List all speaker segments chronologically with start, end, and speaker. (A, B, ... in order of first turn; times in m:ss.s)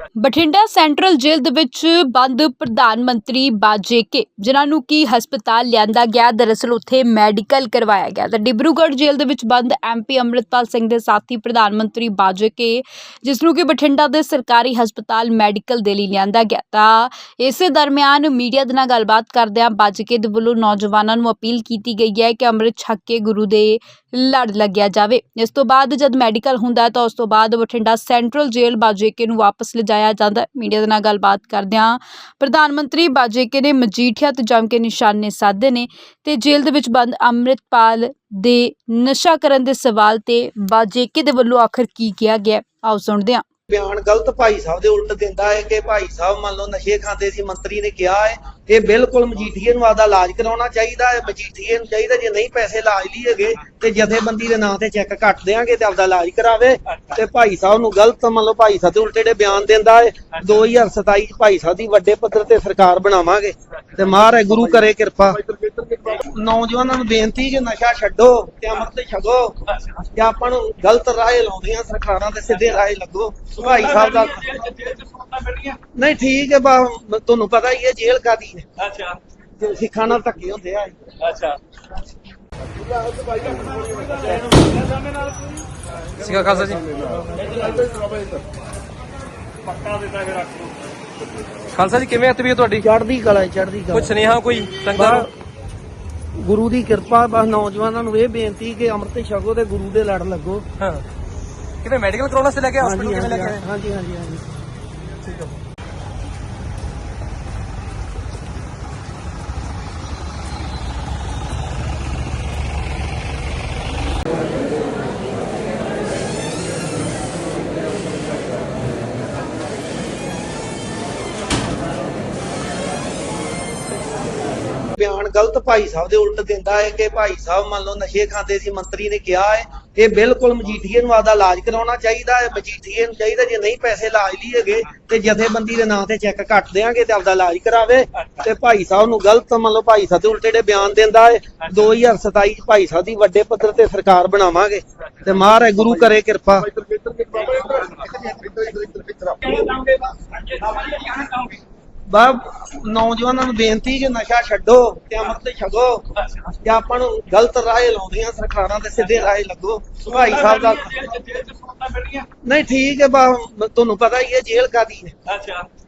0:00.2-0:43.4 A
0:43.7-1:14.5 B
1:13.8-1:15.8 C
1:15.9-1:18.6 B
1:18.8-1:19.2 C
1:19.6-1:21.1 B
1:21.2-1:21.6 C
1:26.2-1:26.9 D
1:27.3-1:27.8 B
1:29.8-1:30.7 C
1:31.7-1:32.8 D
1:32.8-1:34.1 B
1:33.9-1:35.2 D
1:34.9-1:35.3 B
1:36.4-1:40.6 B
1:40.8-1:41.0 D
1:41.8-1:43.6 D
1:42.8-1:44.4 B
1:45.2-1:45.5 D
2:04.9-2:26.9 B
2:26.8-2:31.6 C
2:28.2-2:29.0 B
2:32.1-2:41.0 B
2:40.2-2:42.3 C
2:42.4-2:45.2 B
2:45.3-2:45.7 C